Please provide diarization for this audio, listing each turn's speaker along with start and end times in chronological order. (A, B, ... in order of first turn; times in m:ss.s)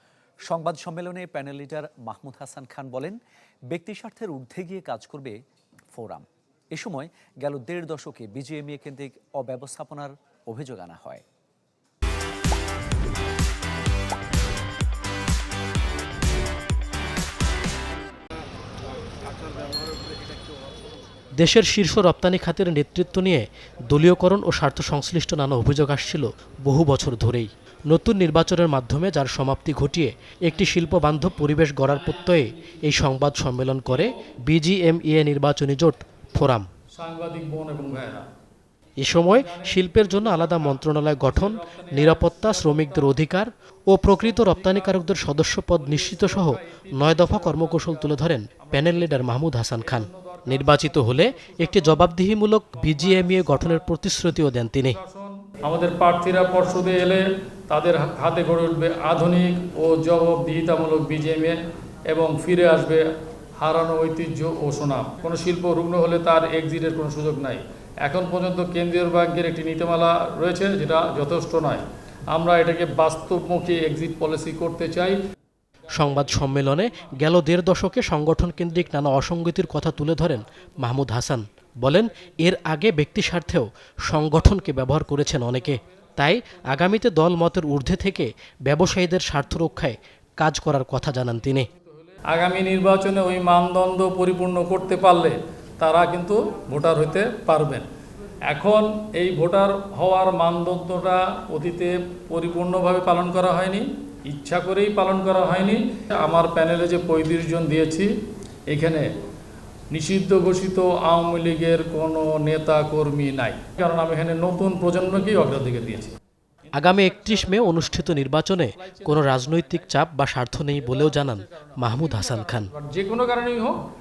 0:00.5-0:03.2 A
0:03.7-0:05.4 A
0:05.9-0:11.2 A
0:21.4-0:36.7 B
0:36.9-0:38.2 C
0:39.0-0:55.0 B
0:39.2-0:43.2 C
0:44.0-0:52.1 C
0:52.8-0:53.9 C
0:54.7-1:03.1 C
1:03.6-1:15.2 C
1:15.9-1:31.7 B
1:16.3-1:17.1 C
1:19.0-1:20.4 C
1:24.3-1:26.6 C
1:31.7-1:37.9 C
1:38.5-1:48.1 C
1:48.7-1:49.1 C
1:49.9-1:56.1 C
1:56.7-2:02.7 B
1:56.8-2:00.0 C
2:00.7-2:03.8 C